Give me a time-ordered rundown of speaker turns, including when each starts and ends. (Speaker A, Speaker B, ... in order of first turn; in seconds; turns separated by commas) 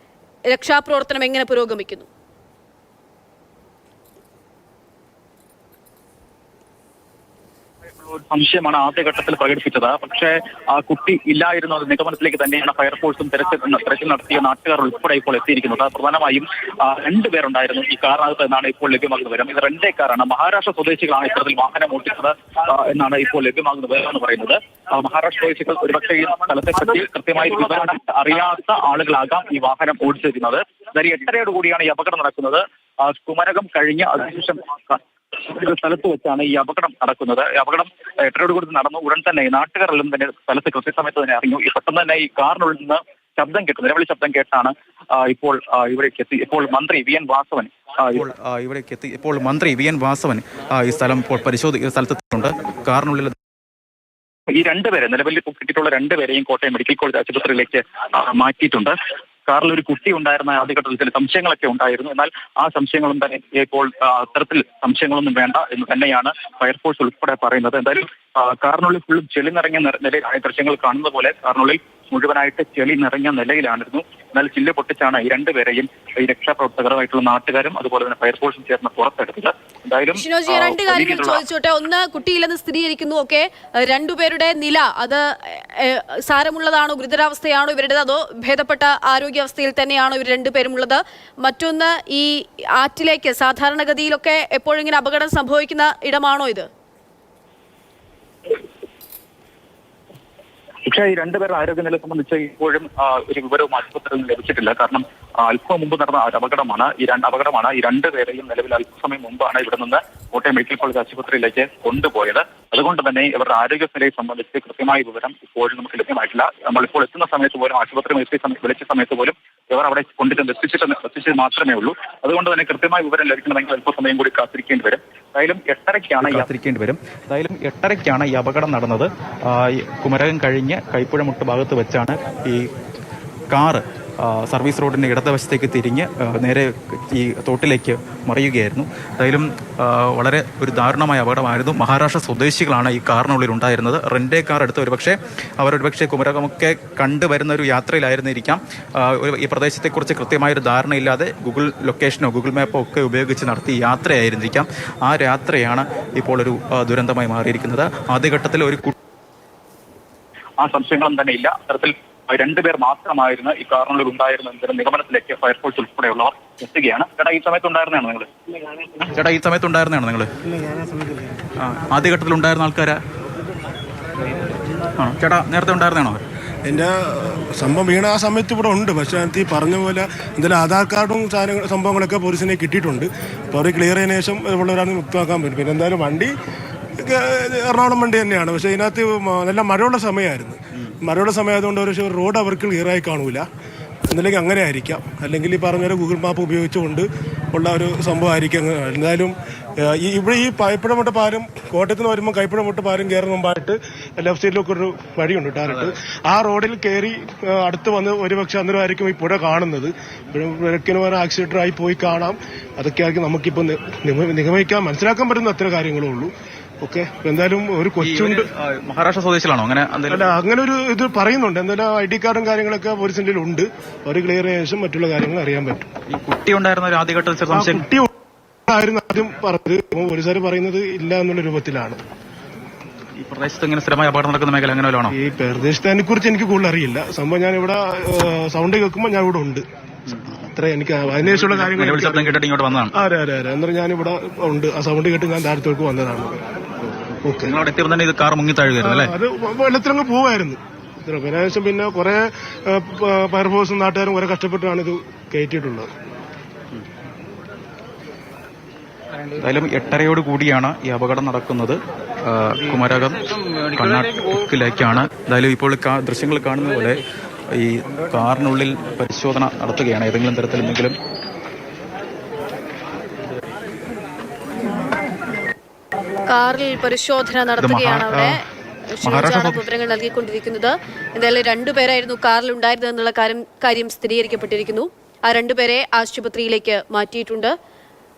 Speaker A: 0.5-2.1, Speaker B: 8.0-48.2, Speaker C: 48.1-53.3, Speaker B: 54.5-59.0, Speaker B: 59.5-81.4, Speaker A: 80.2-96.7, Speaker B: 100.9-126.5, Speaker C: 126.2-132.7, Speaker C: 133.5-158.9, Speaker B: 160.6-169.0, Speaker C: 169.1-170.3, Speaker C: 171.6-173.0, Speaker C: 175.0-176.2, Speaker D: 176.7-186.3, Speaker D: 187.0-193.5, Speaker D: 194.1-218.4, Speaker C: 218.0-220.3, Speaker D: 220.1-225.9, Speaker C: 226.1-227.8, Speaker D: 227.5-228.1, Speaker D: 228.7-232.0, Speaker C: 233.2-235.1, Speaker D: 235.1-239.6, Speaker D: 240.3-242.4, Speaker C: 241.2-242.9, Speaker D: 242.9-246.4, Speaker D: 247.2-247.6, Speaker C: 247.4-249.1, Speaker D: 248.8-255.9, Speaker C: 259.3-270.9, Speaker A: 276.2-278.4, Speaker C: 277.6-278.3, Speaker A: 278.9-287.5, Speaker C: 279.0-279.6